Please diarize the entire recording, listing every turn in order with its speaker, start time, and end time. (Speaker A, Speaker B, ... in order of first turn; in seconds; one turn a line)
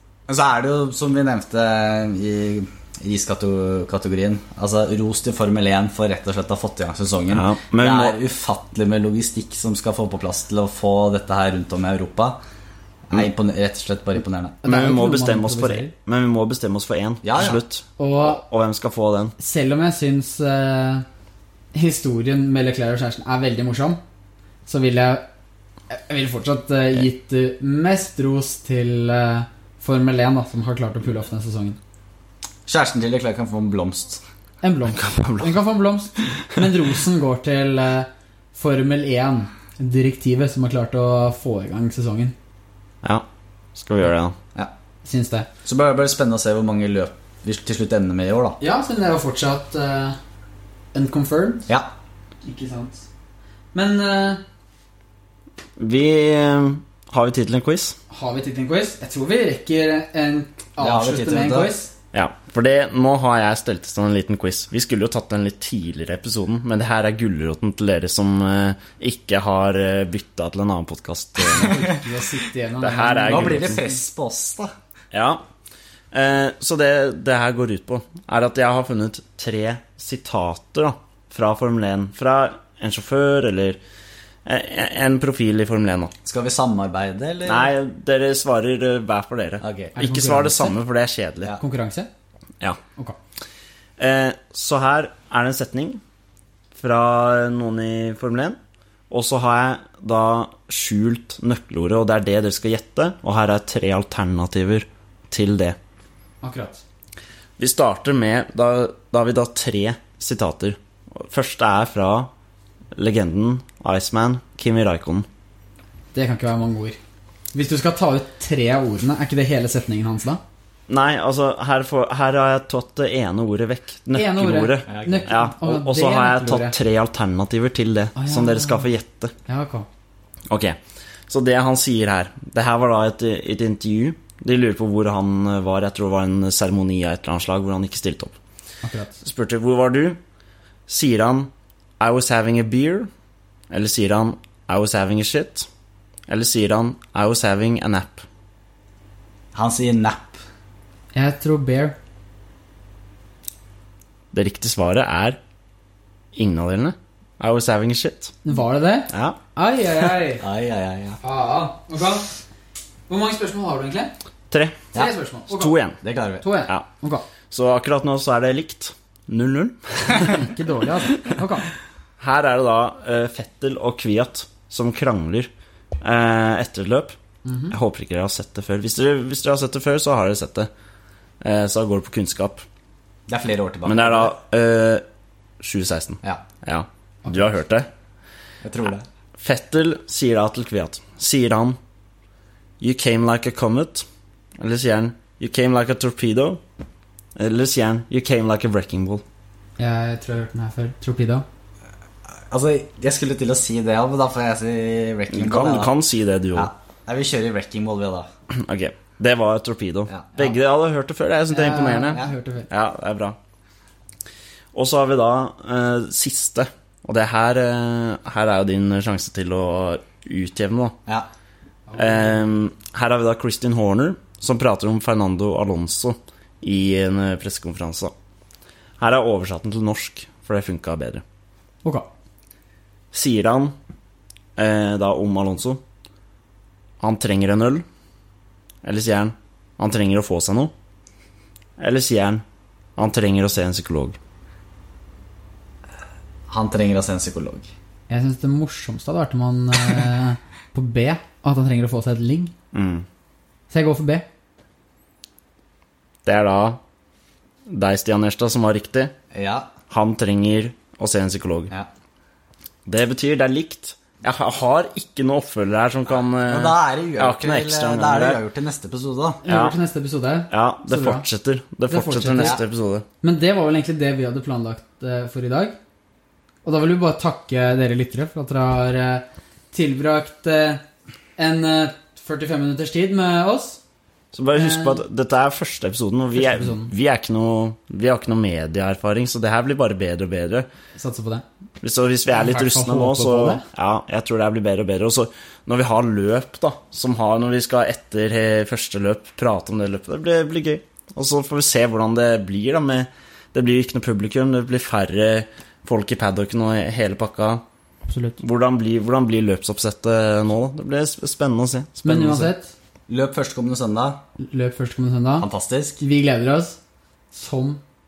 Speaker A: 0.3-12.4
Speaker B: 7.3-8.2
Speaker A: 13.1-14.6
Speaker C: 14.6-15.9
Speaker B: 14.6-19.4
Speaker A: 17.2-17.6
Speaker C: 18.0-18.4
Speaker C: 19.4-21.0
Speaker C: 21.7-24.0
Speaker C: 24.6-25.2
Speaker C: 25.9-31.8
Speaker A: 32.7-34.2
Speaker C: 34.6-42.3
Speaker B: 34.9-35.6
Speaker B: 43.8-44.3
Speaker C: 45.0-45.5
Speaker A: 45.6-48.6
Speaker C: 48.6-50.2
Speaker C: 50.9-51.7
Speaker C: 52.4-53.1
Speaker C: 53.7-54.4
Speaker B: 55.8-58.0
Speaker C: 58.1-61.9
Speaker A: 60.8-61.7
Speaker B: 62.1-71.9
Speaker C: 71.5-73.8
Speaker B: 72.8-73.8
Speaker A: 73.3-74.7
Speaker B: 75.1-75.4
Speaker B: 76.1-83.8
Speaker B: 84.4-86.1
Speaker A: 86.2-87.7
Speaker B: 87.5-91.5
Speaker A: 89.6-89.9
Speaker C: 90.0-90.8
Speaker C: 91.6-92.1
Speaker B: 94.0-96.0
Speaker B: 96.8-98.6
Speaker B: 99.1-105.8
Speaker C: 106.4-106.8
Speaker B: 107.6-112.3
Speaker B: 112.9-115.2
Speaker C: 116.1-117.0
Speaker C: 117.5-120.4
Speaker B: 120.9-129.3
Speaker C: 124.1-126.7
Speaker A: 124.9-125.3
Speaker C: 128.2-128.8
Speaker C: 129.4-129.9
Speaker B: 130.5-130.8
Speaker B: 131.3-138.3
Speaker C: 138.8-139.2
Speaker B: 139.2-140.2
Speaker B: 140.9-143.1
Speaker B: 143.7-145.7
Speaker B: 146.3-148.2
Speaker A: 149.5-150.4
Speaker C: 151.1-151.9
Speaker B: 154.3-155.4
Speaker B: 156.3-158.4
Speaker C: 158.4-160.4
Speaker B: 159.1-159.4
Speaker A: 160.4-161.2
Speaker C: 161.2-162.3
Speaker C: 163.1-164.1
Speaker B: 164.5-164.9
Speaker C: 164.9-165.8
Speaker B: 165.5-166.0
Speaker A: 166.0-166.4
Speaker C: 166.4-167.3
Speaker B: 167.5-170.5
Speaker C: 170.1-171.7
Speaker B: 172.2-175.5
Speaker B: 176.0-177.2
Speaker C: 177.4-177.7
Speaker B: 177.7-180.7
Speaker B: 181.4-182.6
Speaker A: 183.3-184.3
Speaker B: 183.8-185.0
Speaker B: 185.6-187.9
Speaker A: 188.6-189.1
Speaker B: 189.4-191.8
Speaker B: 192.8-194.1
Speaker B: 194.6-196.6
Speaker B: 197.3-199.2
Speaker C: 199.8-201.4
Speaker A: 202.5-205.9
Speaker B: 205.3-206.7
Speaker A: 206.5-208.3
Speaker B: 208.5-213.4
Speaker A: 210.1-210.5
Speaker C: 211.5-212.7
Speaker B: 214.7-220.9
Speaker C: 221.9-222.4
Speaker B: 222.0-228.1
Speaker B: 229.0-231.2
Speaker B: 233.1-233.7
Speaker B: 234.6-235.8
Speaker B: 237.0-237.8
Speaker B: 238.8-240.7
Speaker B: 241.8-242.4
Speaker B: 243.0-244.2
Speaker A: 246.5-247.7
Speaker C: 248.1-252.5
Speaker B: 252.7-253.1
Speaker C: 253.7-254.2
Speaker B: 256.2-256.8
Speaker B: 257.7-259.1
Speaker A: 259.3-259.7
Speaker B: 259.9-261.7
Speaker B: 262.9-268.4
Speaker A: 266.1-269.4
Speaker C: 269.4-271.2
Speaker B: 269.5-269.7
Speaker B: 270.5-273.0
Speaker C: 271.9-272.6
Speaker C: 273.2-275.8
Speaker C: 276.6-280.8
Speaker C: 281.4-283.8
Speaker B: 284.3-290.7
Speaker C: 284.5-285.0
Speaker C: 286.3-286.9
Speaker C: 291.0-291.4
Speaker B: 291.8-307.6
Speaker C: 292.3-293.6
Speaker C: 308.1-308.4
Speaker B: 308.4-312.5
Speaker C: 312.0-312.7
Speaker A: 313.1-314.2
Speaker C: 314.4-315.5
Speaker A: 315.4-316.0
Speaker C: 316.0-316.8
Speaker C: 317.3-317.8